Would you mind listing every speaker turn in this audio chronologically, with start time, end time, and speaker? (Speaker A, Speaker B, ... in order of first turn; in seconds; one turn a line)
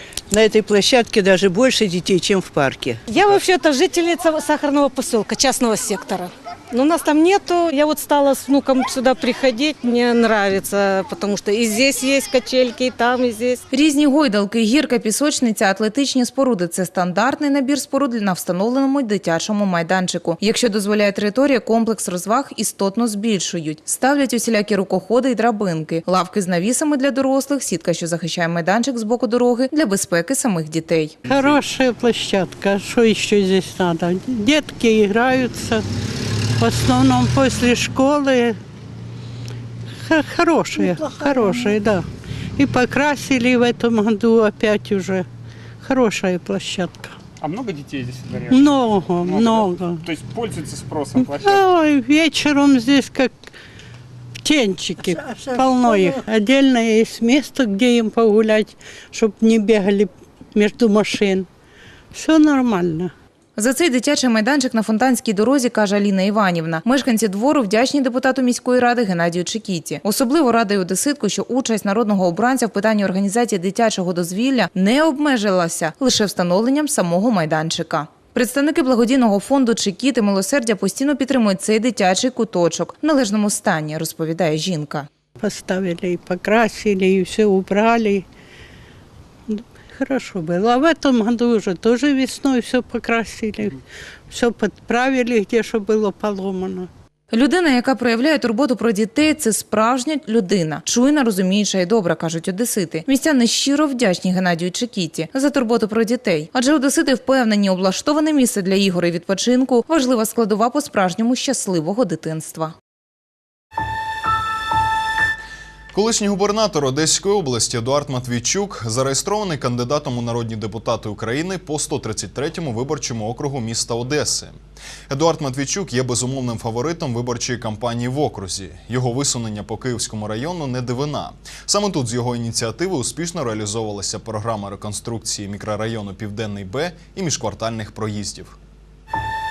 Speaker A: 0.3-3.0
Speaker B: 3.1-13.6
Speaker C: 13.7-31.2
Speaker D: 31.3-35.8
Speaker D: 36.6-38.6
Speaker D: 40.1-42.0
Speaker D: 42.6-45.3
Speaker D: 45.8-47.2
Speaker E: 47.5-48.5
Speaker D: 48.5-50.1
Speaker E: 50.1-51.1
Speaker D: 51.1-53.3
Speaker D: 54.5-61.5
Speaker D: 62.1-63.1
Speaker C: 63.6-85.1
Speaker D: 85.4-88.2
Speaker D: 89.5-93.8
Speaker D: 94.3-96.9
Speaker C: 97.3-112.7
Speaker F: 115.9-124.6
Speaker F: 125.1-138.6